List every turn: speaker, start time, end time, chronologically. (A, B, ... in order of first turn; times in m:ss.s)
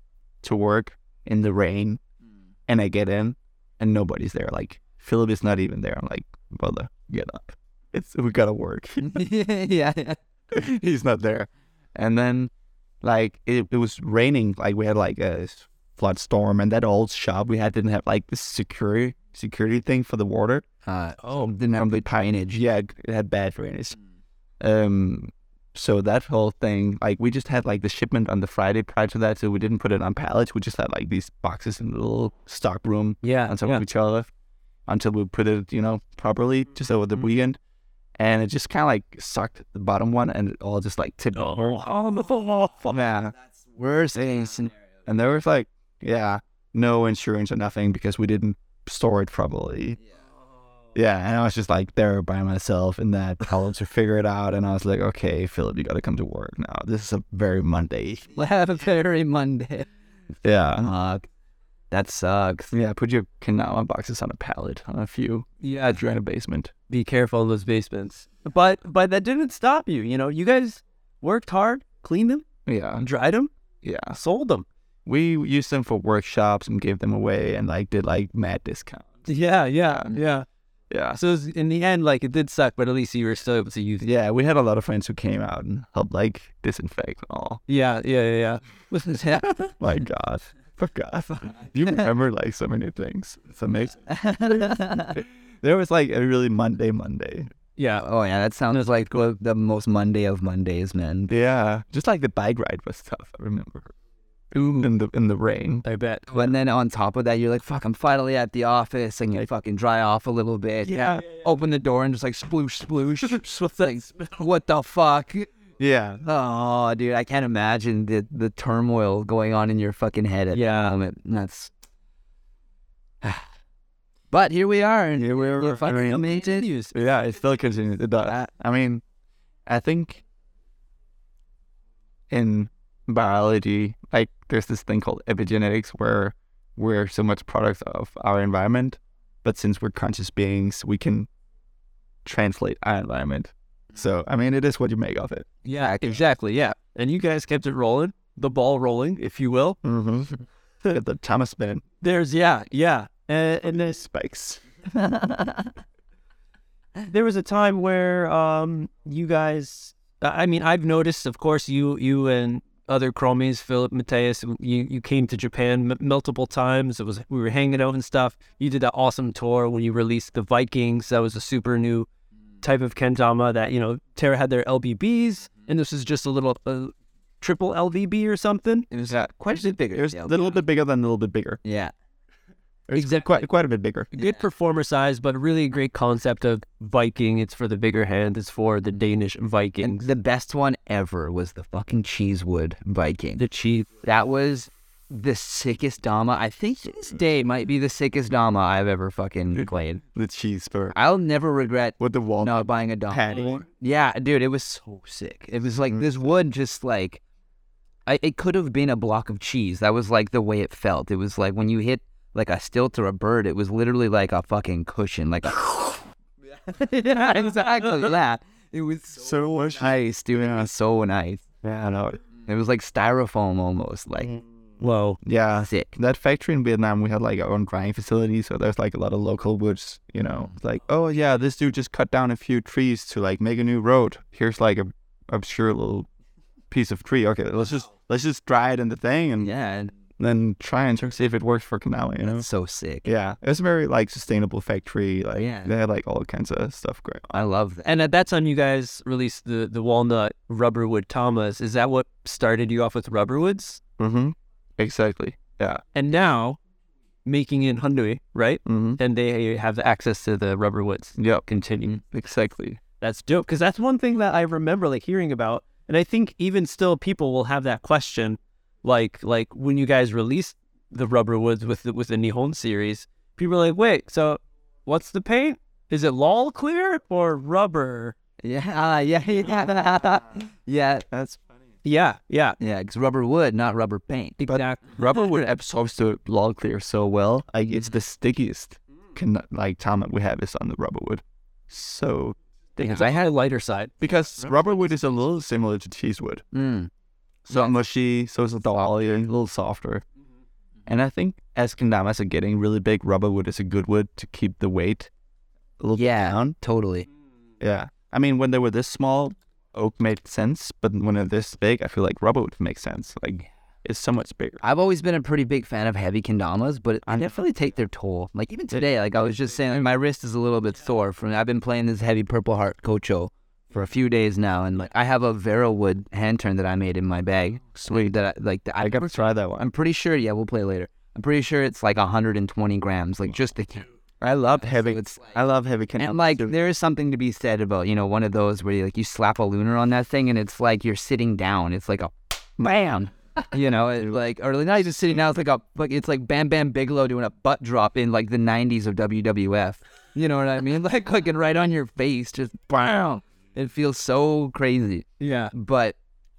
0:00.4-0:02.0 A
0:02.7-0:09.2 A
0:09.0-0:10.2 B
0:10.5-0:12.5 A
0:13.0-0:20.6 A
0:20.8-0:22.6 B
0:21.2-0:21.5 C
0:21.8-0:24.0 A
0:24.6-0:34.3 A
0:33.2-0:33.8 C
0:34.9-0:37.6 A
0:38.2-0:43.3 A
0:41.4-0:42.3 C
0:43.7-0:44.7 B
0:44.2-0:44.5 A
0:45.0-0:50.0 A
0:50.9-0:58.4 A
0:58.3-0:59.9 B
1:00.4-1:00.9 A
1:00.8-1:01.2 B
1:01.9-1:02.7 B
1:02.7-1:06.7 A
1:05.6-1:06.0 C
1:06.9-1:12.4 C
1:12.6-1:13.0 A
1:13.0-1:13.5 C
1:13.8-1:14.2 A
1:14.1-1:14.6 C
1:15.0-1:19.2 A
1:19.2-1:20.4 C
1:20.9-1:21.2 A
1:21.1-1:24.0 C
1:24.0-1:27.6 A
1:27.7-1:29.4 C
1:29.6-1:37.5 A
1:34.1-1:35.2 B
1:37.8-1:38.0 C
1:38.0-1:41.3 B
1:41.3-1:43.9 A
1:44.5-1:44.9 C
1:44.8-1:45.8 A
1:45.8-1:46.3 C
1:46.3-1:55.5 B
1:50.8-1:51.3 A
1:55.8-1:56.2 A
1:56.2-2:01.7 B
2:00.5-2:00.9 C
2:04.3-2:06.7 B
2:05.2-2:06.3 A
2:06.3-2:06.9 C
2:06.9-2:09.0 A
2:09.7-2:10.2 A
2:12.3-2:21.3 A
2:22.2-2:25.5 A
2:25.6-2:29.8 C
2:29.8-2:31.8 A
2:32.0-2:34.0 C
2:33.7-2:34.6 A
2:37.0-2:52.1 C
2:52.6-2:58.9 C
2:58.9-3:00.5 B
2:59.1-2:59.4 A
2:59.9-3:01.6 A
3:01.6-3:01.9 B
3:02.9-3:04.1 A
3:02.9-3:03.4 C
3:04.1-3:10.1 C
3:09.8-3:13.4 B
3:13.4-3:13.9 C
3:14.0-3:20.0 B
3:19.6-3:21.0 A
3:20.9-3:27.2 B
3:22.0-3:23.6 A
3:28.0-3:36.0 B
3:36.5-3:41.4 B
3:39.2-3:40.0 A
3:41.6-3:42.2 A
3:42.4-3:44.3 B
3:44.8-3:45.2 C
3:45.2-3:56.1 A
3:45.6-3:45.9 B
3:56.7-3:59.5 A
3:59.4-3:59.9 B
4:00.2-4:02.4 A
4:02.2-4:03.1 B
4:03.0-4:07.4 A
4:05.4-4:05.7 B
4:07.3-4:07.9 B
4:07.8-4:13.8 C
4:14.0-4:15.8 A
4:15.9-4:16.6 C
4:17.2-4:22.0 C
4:18.6-4:19.0 A
4:21.2-4:21.4 A
4:22.0-4:22.8 A
4:23.0-4:38.1 C
4:38.4-4:41.0 B
4:41.1-4:41.4 A
4:41.8-4:42.6 C
4:42.6-4:44.4 B
4:44.4-4:44.8 C
4:44.5-4:53.0 A
4:52.8-4:53.9 C
4:54.0-4:56.4 A
4:56.5-4:56.9 B
4:57.4-5:00.0 A
5:00.9-5:05.1 A
5:05.8-5:06.6 A
5:05.9-5:07.1 B
5:07.6-5:14.6 A
5:14.6-5:33.9 B
5:17.1-5:17.3 A
5:27.8-5:28.1 A
5:28.8-5:29.7 A
5:34.2-5:36.5 A
5:34.4-5:35.4 B
5:36.0-5:56.0 B
5:55.2-5:55.5 C